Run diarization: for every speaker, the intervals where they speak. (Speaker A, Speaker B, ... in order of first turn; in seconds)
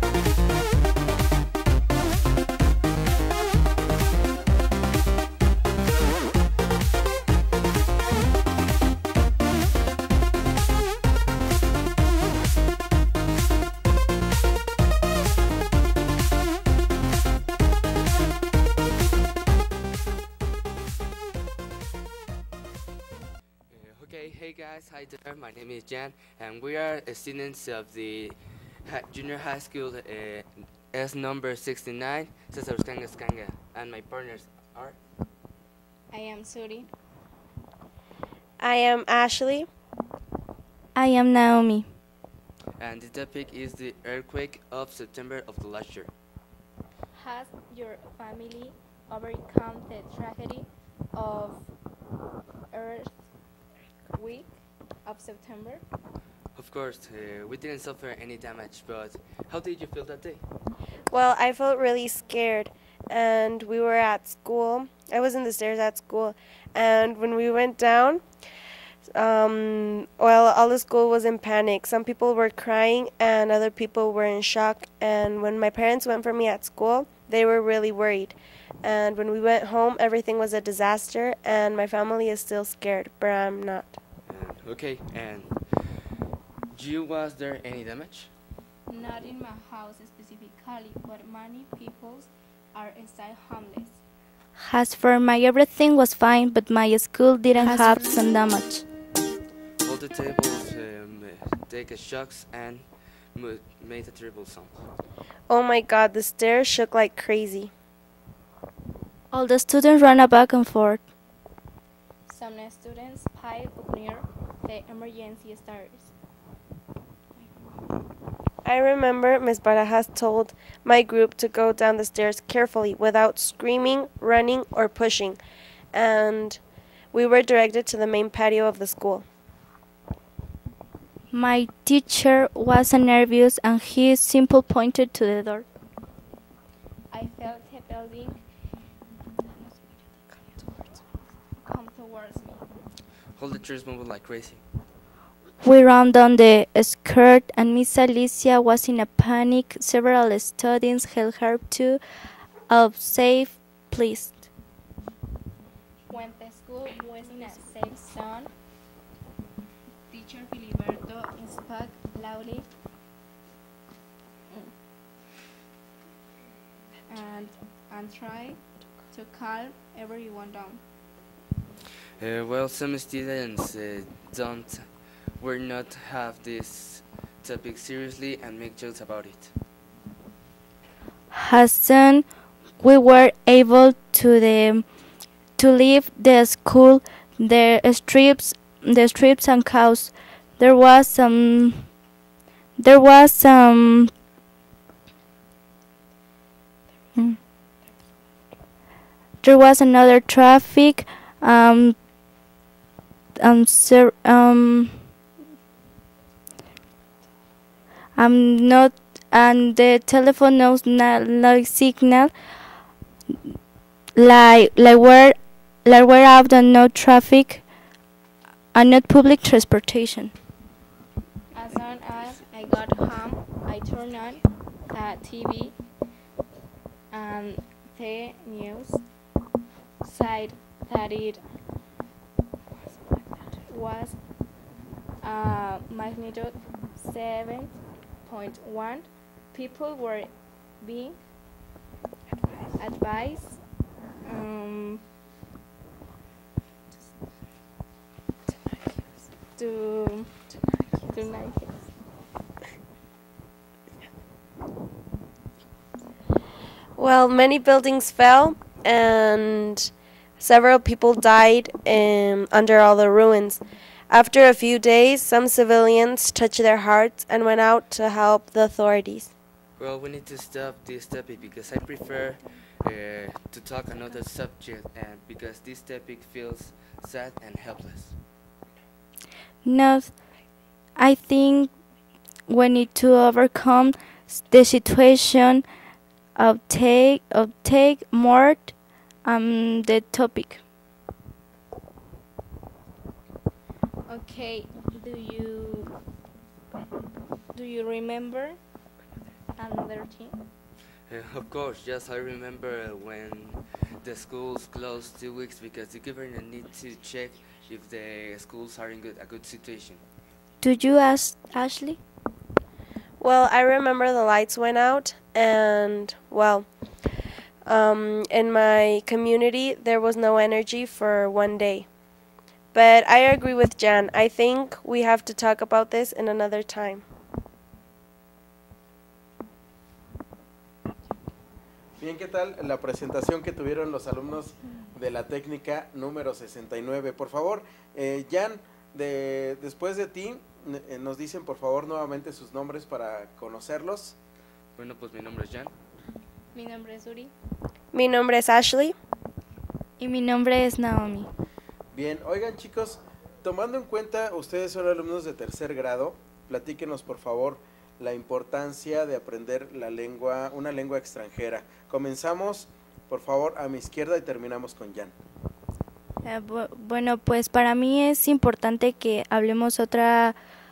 Speaker A: 23.7-35.0, 42.8-46.1, 56.5-60.4, 84.3-86.0, 86.7-88.3, 99.8-104.9, 143.3-144.6, 172.2-174.9, 175.4-179.5, 269.8-278.1, 301.1-310.0, 344.8-345.7
Speaker B: 36.1-36.9, 47.1-51.7, 52.7-53.1, 54.1-55.8, 88.9-94.0, 112.3-116.1, 117.4-117.7, 137.1-138.4, 139.5-141.0, 141.5-142.7, 156.1-158.5, 160.1-162.7, 167.1-170.8, 221.5-225.8, 227.1-229.0, 230.0-231.4, 233.6-234.2, 235.2-241.2, 242.7-243.6, 244.2-245.0, 249.5-251.9, 294.1-295.9, 297.5-298.6, 299.6-300.4, 346.5-347.3
Speaker C: 38.6-39.7, 61.1-68.2, 69.1-83.9, 105.5-107.7, 118.6-125.4, 125.9-126.6, 127.1-129.2, 257.0-269.3, 313.2-316.7, 317.6-321.9, 322.7-327.0, 347.9-348.9
Speaker D: 40.9-41.9, 94.6-98.8, 109.3-111.0, 131.3-135.7, 145.6-152.0, 152.7-154.5, 181.3-182.2, 182.8-184.8, 185.6-191.9, 192.8-194.1, 199.4-202.0, 203.4-205.0, 208.2-212.3, 214.1-217.7, 218.7-220.3, 279.6-280.2, 280.9-281.7, 282.5-285.6, 286.4-290.6, 310.6-312.0, 350.0-351.3, 366.2-370.4
Speaker E: 332.0-344.2, 351.9-365.1